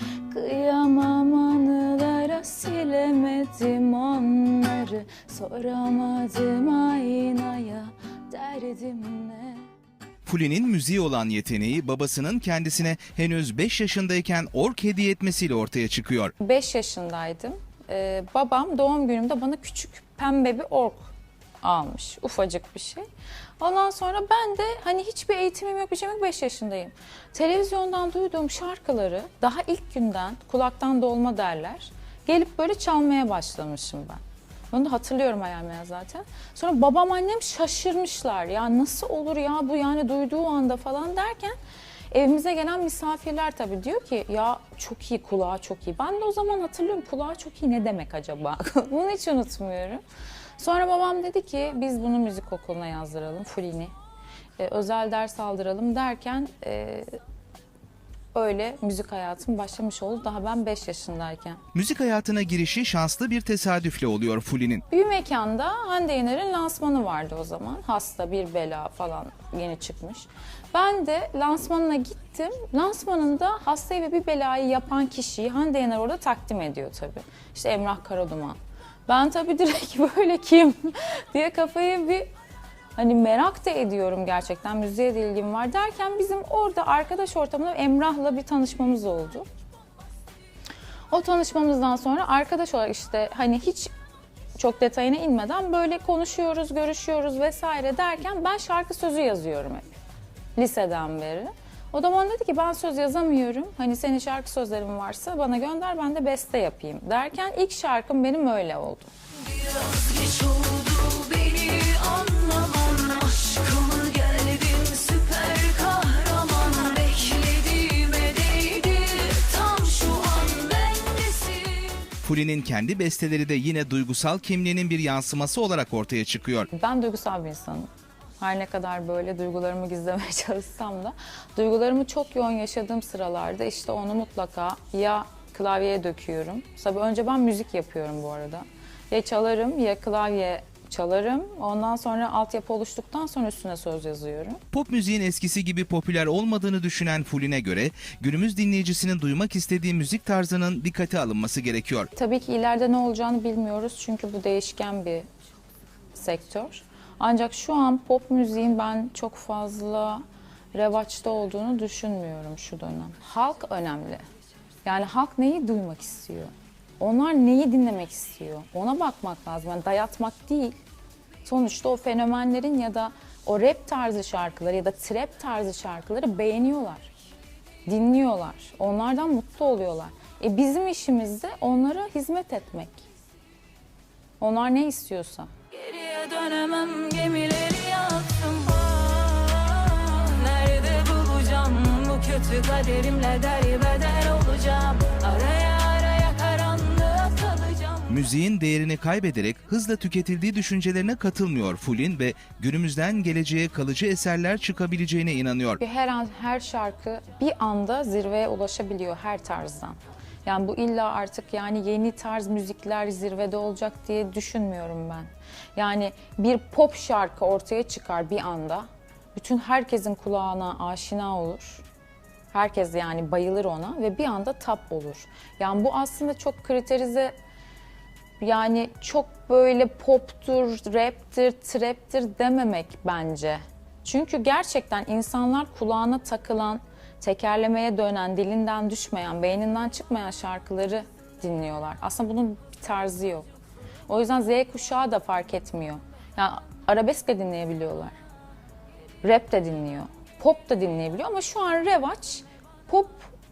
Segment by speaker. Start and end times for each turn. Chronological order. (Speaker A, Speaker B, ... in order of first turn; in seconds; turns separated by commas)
Speaker A: 0.3-9.7, Speaker B: 10.2-16.3, Speaker A: 16.4-23.1, Speaker A: 23.6-41.6, Speaker A: 42.1-50.0, Speaker A: 50.6-53.9, Speaker A: 54.6-57.1, Speaker A: 58.3-61.6, Speaker B: 61.7-64.8, Speaker A: 64.9-82.3, Speaker A: 83.0-89.5, Speaker A: 91.1-93.9, Speaker A: 94.6-99.9, Speaker A: 100.6-109.1, Speaker C: 109.5-122.1, Speaker B: 122.2-126.7, Speaker A: 126.7-144.6, Speaker B: 144.7-152.1, Speaker A: 152.2-155.3, Speaker A: 156.1-160.2, Speaker A: 160.7-164.2, Speaker A: 164.8-170.8, Speaker A: 171.4-177.1, Speaker A: 177.9-183.1, Speaker A: 184.4-185.5, Speaker C: 185.7-198.1, Speaker B: 198.1-205.8, Speaker A: 205.8-221.8, Speaker A: 222.5-227.3, Speaker A: 228.4-243.5, Speaker A: 244.1-248.2, Speaker A: 249.2-253.3